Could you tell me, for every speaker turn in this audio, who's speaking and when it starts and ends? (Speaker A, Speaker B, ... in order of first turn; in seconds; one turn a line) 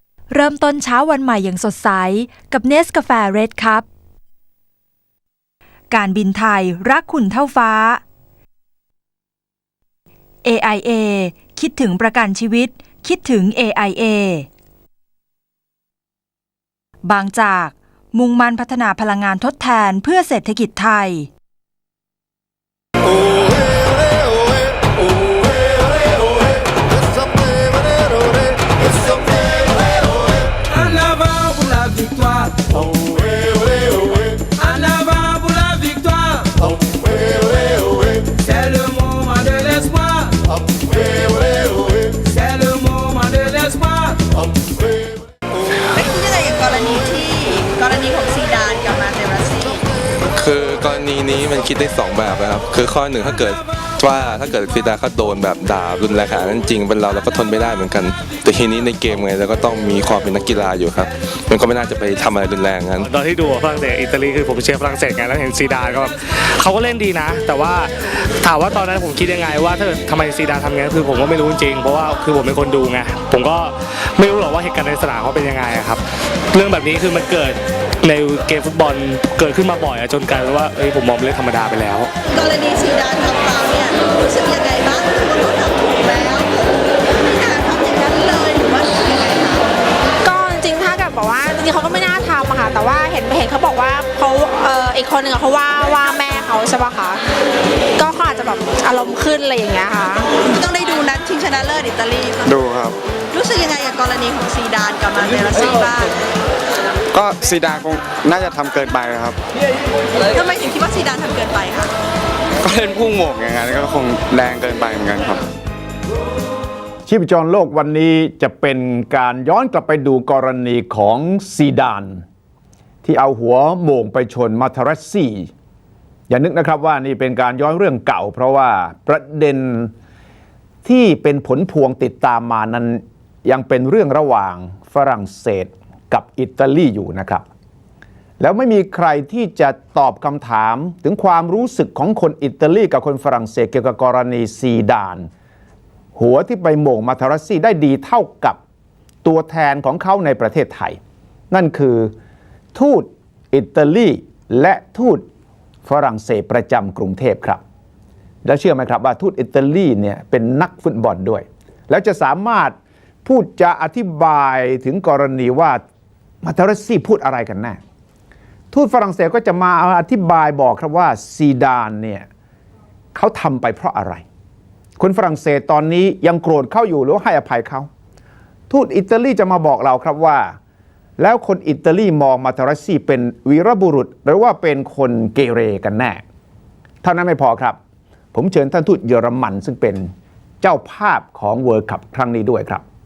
Speaker A: 0.3-3.8
Speaker A: 5.9-8.0
Speaker A: 10.4-14.5
Speaker A: 17.0-21.3
Speaker B: 45.9-49.9
Speaker C: 50.3-63.1
Speaker D: 63.0-76.0
Speaker D: 76.5-82.1
Speaker B: 82.3-89.7
Speaker E: 90.2-97.2
Speaker E: 98.0-100.3
Speaker B: 100.3-102.5
Speaker F: 102.4-103.0
Speaker B: 103.3-106.2
Speaker F: 107.1-109.4
Speaker B: 110.3-111.9
Speaker F: 112.6-115.4
Speaker G: 117.0-122.2
Speaker G: 123.0-125.5
Speaker G: 126.3-129.9
Speaker G: 130.8-137.4
Speaker G: 138.4-145.3
Speaker G: 146.2-148.6
Speaker G: 149.2-151.0
Speaker G: 151.5-152.1
Speaker G: 152.7-155.2
Speaker G: 155.8-157.6
Speaker G: 158.4-165.8
Speaker G: 166.4-167.8
Speaker G: 168.7-172.3
Speaker G: 173.1-174.2
Speaker G: 175.0-177.9
Speaker G: 178.7-180.6
Speaker G: 181.2-186.2
Speaker G: 187.0-187.8
Speaker G: 188.3-192.8